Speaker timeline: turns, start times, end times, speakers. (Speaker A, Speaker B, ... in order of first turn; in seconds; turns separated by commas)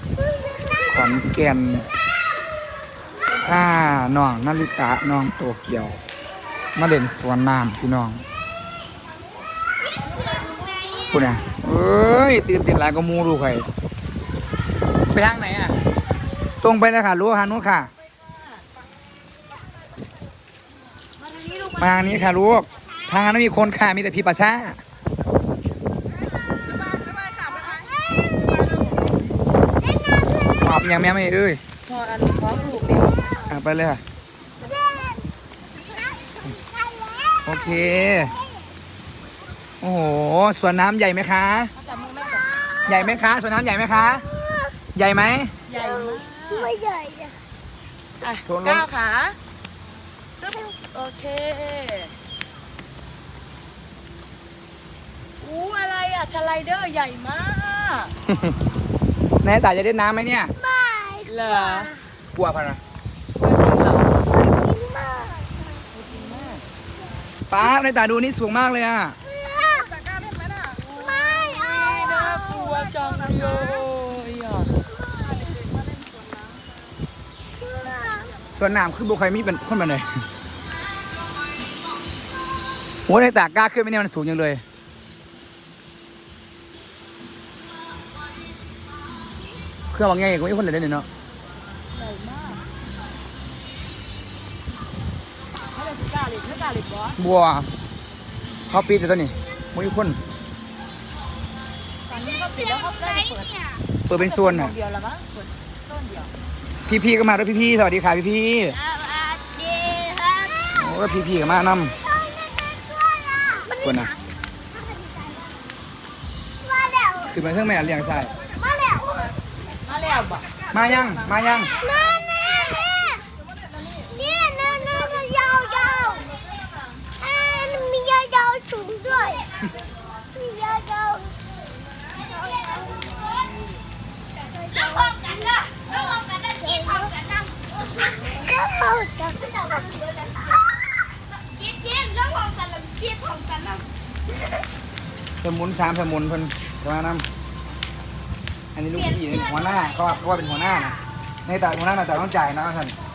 Speaker A: 0.8-1.9, Speaker A: 3.4-6.0, Speaker A: 6.8-8.2, Speaker B: 10.4-11.0, Speaker A: 11.1-13.7, Speaker A: 15.1-15.8, Speaker A: 16.6-17.9, Speaker C: 21.2-21.9, Speaker A: 21.8-24.8, Speaker B: 28.2-28.6, Speaker B: 29.9-30.4, Speaker A: 30.6-31.6, Speaker C: 31.9-33.5, Speaker A: 33.5-34.0, Speaker B: 34.6-35.2, Speaker B: 35.9-37.5, Speaker A: 37.4-38.4, Speaker A: 39.8-41.7, Speaker C: 41.8-42.5, Speaker A: 42.9-44.3, Speaker B: 44.4-44.7, Speaker A: 44.9-45.5, Speaker C: 45.7-46.8, Speaker B: 46.7-47.4, Speaker C: 48.2-49.4, Speaker A: 48.4-48.9, Speaker C: 50.4-52.1, Speaker C: 55.4-58.1, Speaker A: 58.3-58.5, Speaker A: 59.4-60.5, Speaker B: 60.7-61.5, Speaker C: 61.2-61.9, Speaker A: 62.3-62.8, Speaker C: 63.4-64.2, Speaker B: 64.3-65.6, Speaker C: 65.9-66.6, Speaker A: 67.5-69.2, Speaker B: 69.4-70.0, Speaker C: 70.6-74.8, Speaker B: 77.7-78.3, Speaker A: 78.5-80.1, Speaker A: 83.1-84.6, Speaker A: 89.9-91.1, Speaker C: 91.9-92.6, Speaker C: 95.7-97.2, Speaker A: 97.2-97.7, Speaker A: 98.7-100.2, Speaker C: 102.1-103.6, Speaker A: 104.1-104.7, Speaker C: 104.1-106.3, Speaker A: 106.8-108.8, Speaker B: 109.0-110.6, Speaker A: 110.7-112.0, Speaker B: 112.2-113.8, Speaker A: 113.8-114.1, Speaker B: 114.9-115.4, Speaker B: 116.7-117.3, Speaker A: 117.3-118.3, Speaker B: 118.6-119.3, Speaker C: 119.9-120.4, Speaker A: 120.7-121.7, Speaker B: 121.8-123.2, Speaker B: 124.0-126.4, Speaker B: 127.2-129.5, Speaker B: 130.2-131.4, Speaker B: 132.2-133.3, Speaker B: 134.4-143.8, Speaker A: 145.4-147.2, Speaker A: 148.7-152.9